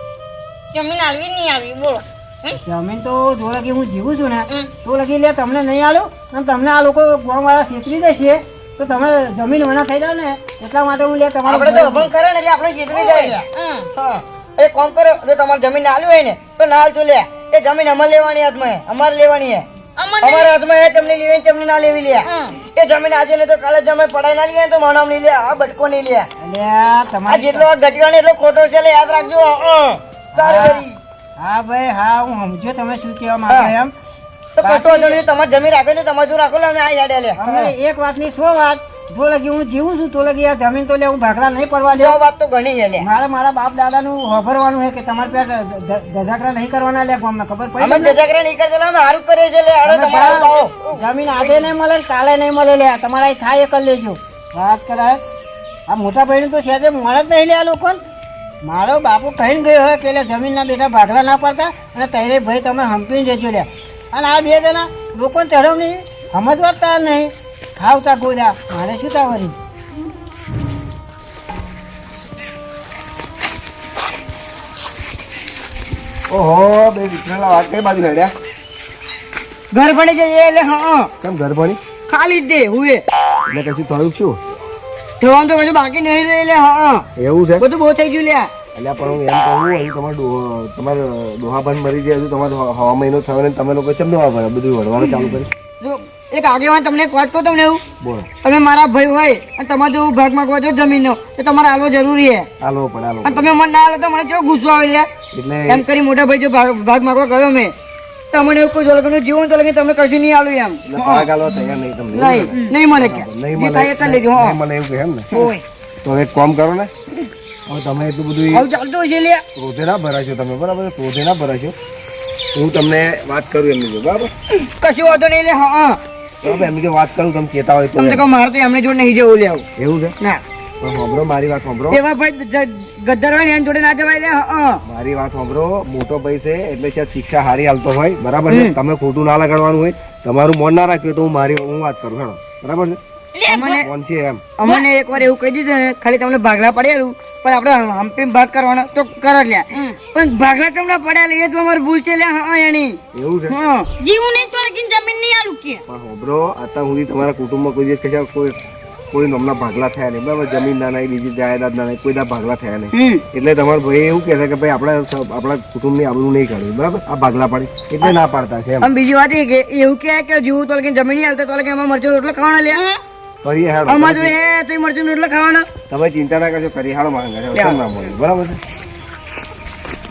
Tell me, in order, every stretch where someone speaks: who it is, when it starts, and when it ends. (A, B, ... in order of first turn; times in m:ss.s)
0:00.7-0:02.6 A
0:02.5-0:12.1 B
0:11.5-0:13.4 C
0:12.9-0:13.9 A
0:14.0-0:19.7 C
0:20.0-0:20.5 A
0:20.2-0:26.3 C
0:22.3-0:22.6 A
0:26.4-0:27.7 B
0:27.3-0:31.0 C
0:30.4-0:30.8 B
0:31.4-0:33.9 B
0:34.6-0:37.7 C
0:34.6-0:35.2 B
0:37.4-0:42.2 B
0:41.9-0:43.1 C
0:43.0-0:48.2 B
0:47.8-0:51.6 C
0:49.8-0:55.2 B
0:55.9-0:58.0 B
0:58.6-1:09.6 B
1:16.3-1:18.3 D
1:19.7-1:21.1 C
1:21.2-1:21.8 D
1:22.1-1:23.0 C
1:23.5-1:24.4 D
1:25.2-1:27.1 C
1:27.2-1:27.7 D
1:27.6-1:28.5 C
1:28.8-1:35.5 D
1:35.8-1:37.8 C
1:38.0-1:38.3 D
1:38.4-1:42.5 C
1:42.6-1:43.5 D
1:43.2-1:45.1 C
1:45.3-1:45.8 D
1:45.7-1:47.7 C
1:48.3-1:51.3 C
1:50.8-1:55.3 D
1:52.1-1:54.6 C
1:55.3-1:55.6 C
1:56.0-1:56.9 D
1:57.7-1:58.7 D
1:58.5-1:59.4 C
1:59.6-2:01.8 D
2:02.6-2:04.3 D
2:04.7-2:06.0 C
2:06.4-2:08.2 D
2:08.0-2:09.7 C
2:09.8-2:10.2 D
2:10.8-2:12.0 D
2:11.9-2:14.8 C
2:14.9-2:23.0 D
2:18.5-2:18.8 C
2:23.4-2:23.8 A
2:23.5-2:23.9 C
2:23.8-2:24.5 D
2:24.6-2:33.9 C
2:33.1-2:33.6 D
2:34.0-2:35.8 A
2:35.9-2:38.6 D
2:39.1-2:48.9 D
2:42.9-2:43.2 C
2:48.8-2:52.8 C
2:52.7-2:53.0 A
2:53.4-2:54.4 D
2:53.9-2:55.7 C
2:55.9-2:58.6 D
2:57.6-2:57.8 C